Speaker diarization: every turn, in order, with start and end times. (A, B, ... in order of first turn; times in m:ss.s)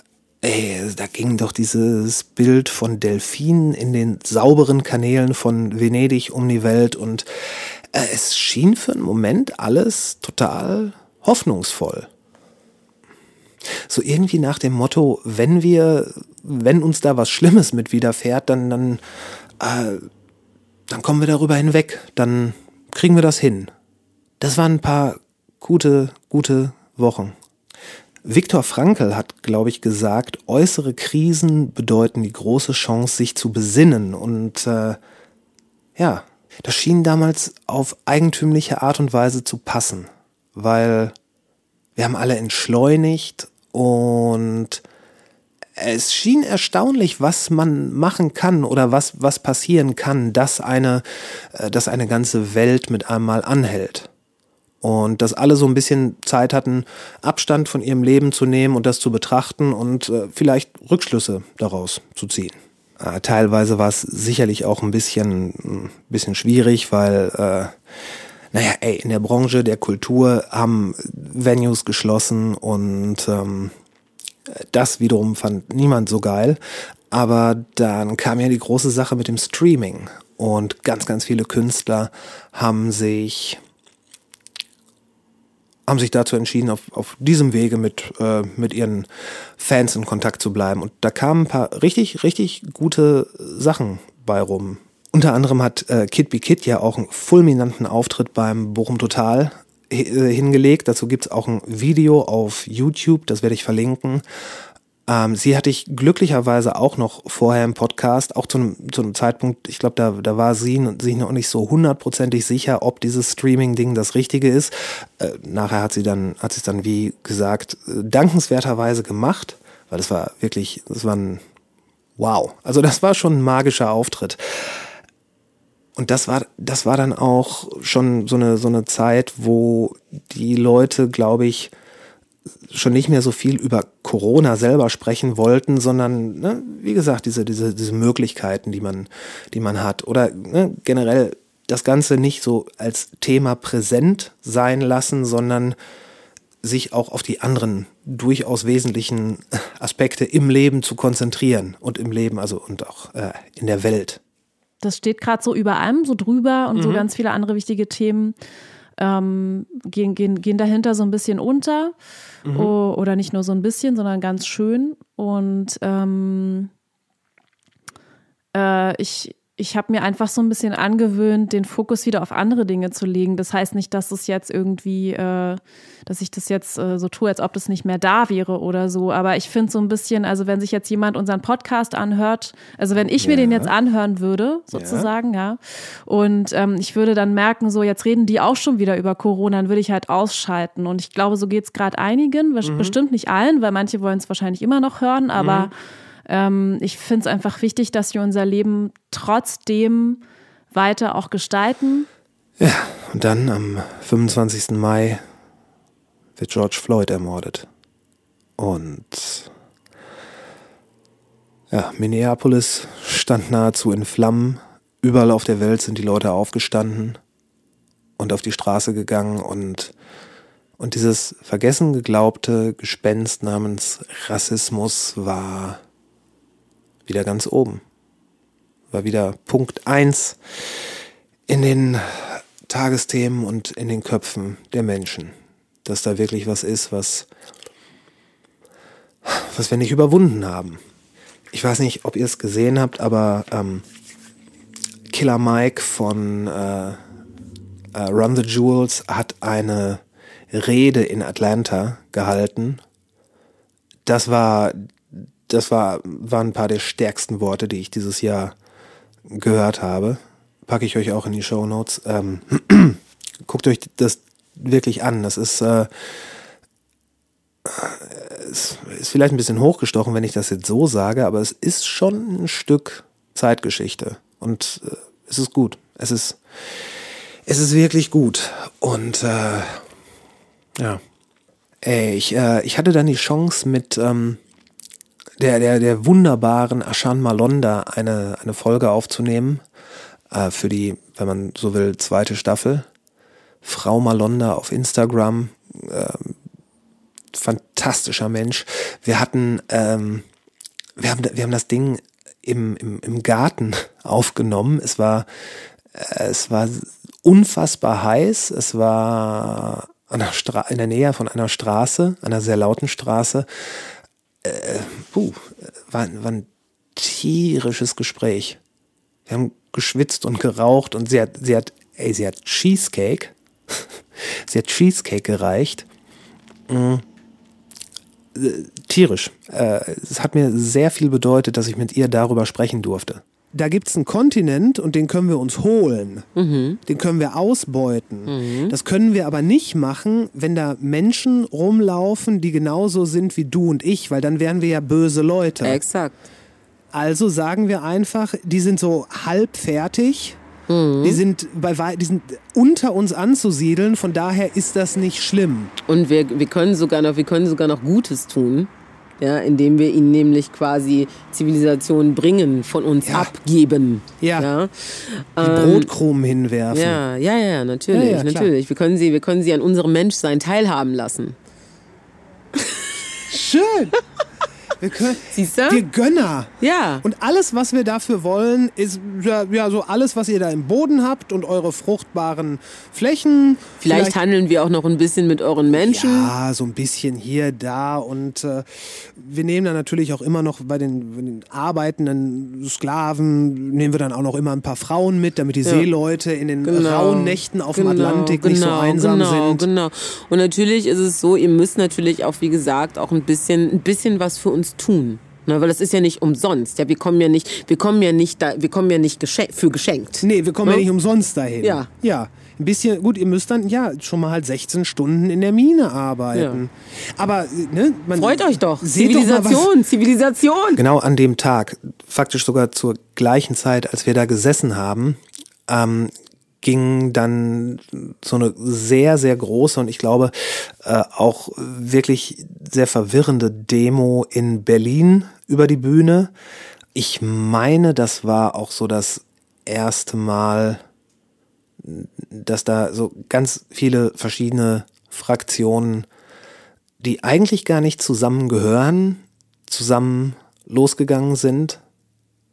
0:00.4-0:07.3 A
0:07.9-0:12.1 A
0:13.9-0:19.0 A
0:19.6-0:20.1 A
0:20.9-0:23.7 A
0:24.4-0:27.4 A
0:28.2-0:35.0 A
0:36.0-0:41.2 A
0:42.0-0:44.8 A
0:45.8-0:54.1 A
0:54.8-1:07.8 A
1:08.5-1:13.7 A
1:14.5-1:16.6 A
1:17.1-1:23.6 A
1:25.9-1:44.2 A
1:45.1-2:01.4 A
2:02.2-2:04.7 A
2:06.0-2:11.7 A
2:12.7-2:25.8 A
2:26.6-2:34.2 A
2:34.8-2:38.4 B
2:36.8-2:37.1 A
2:39.0-2:41.9 B
2:42.4-2:42.7 A
2:42.5-2:46.7 B
2:48.5-3:15.7 B
3:03.1-3:03.7 A
3:04.7-3:05.1 A
3:12.6-3:13.0 A
3:15.4-3:15.7 A
3:16.3-3:20.2 B
3:20.7-3:22.1 B
3:22.6-3:25.2 A
3:26.4-3:27.7 A
3:28.6-3:29.5 A
3:31.7-3:37.2 A
3:38.2-3:39.9 A
3:40.8-3:45.8 A
3:47.1-3:47.8 A
3:48.9-3:50.4 A
3:51.5-3:55.3 A
3:55.8-3:57.3 A
3:59.2-4:00.8 A
4:01.5-4:03.8 A
4:05.1-4:07.0 A
4:07.9-4:12.8 A
4:14.1-4:18.6 A
4:19.3-4:26.2 A
4:27.7-4:36.4 A
4:37.5-4:39.8 A
4:41.8-4:44.4 A
4:45.4-4:49.6 A
4:50.3-4:52.9 A
4:53.6-4:56.4 A
4:57.3-5:00.2 A
5:01.0-5:05.3 A
5:05.9-5:13.5 A
5:14.4-5:18.6 A
5:19.3-5:23.3 A
5:24.2-5:25.9 A
5:26.7-5:27.0 A
5:28.4-5:36.3 A
5:36.4-5:36.8 C
5:36.9-5:45.8 A
5:38.3-5:38.7 C
5:45.6-5:46.3 C
5:46.9-5:50.4 A
5:50.7-5:51.2 C
5:51.0-5:55.7 A
5:55.9-6:05.9 C
6:03.0-6:03.3 A
6:04.2-6:04.5 A
6:05.4-6:07.0 A
6:06.7-6:11.4 C
6:07.9-6:08.5 A
6:12.6-6:13.0 C
6:13.3-6:14.0 A
6:14.8-6:24.2 A
6:15.3-6:15.8 C
6:16.6-6:17.0 C
6:23.8-6:26.3 C
6:25.7-6:39.7 A
6:36.6-6:50.8 C
6:50.2-6:59.7 A
6:51.6-6:51.9 C
6:56.3-6:56.6 C
6:58.2-7:00.8 C
7:00.8-7:16.3 A
7:17.0-7:20.8 A
7:21.8-7:26.1 A
7:27.0-7:31.8 A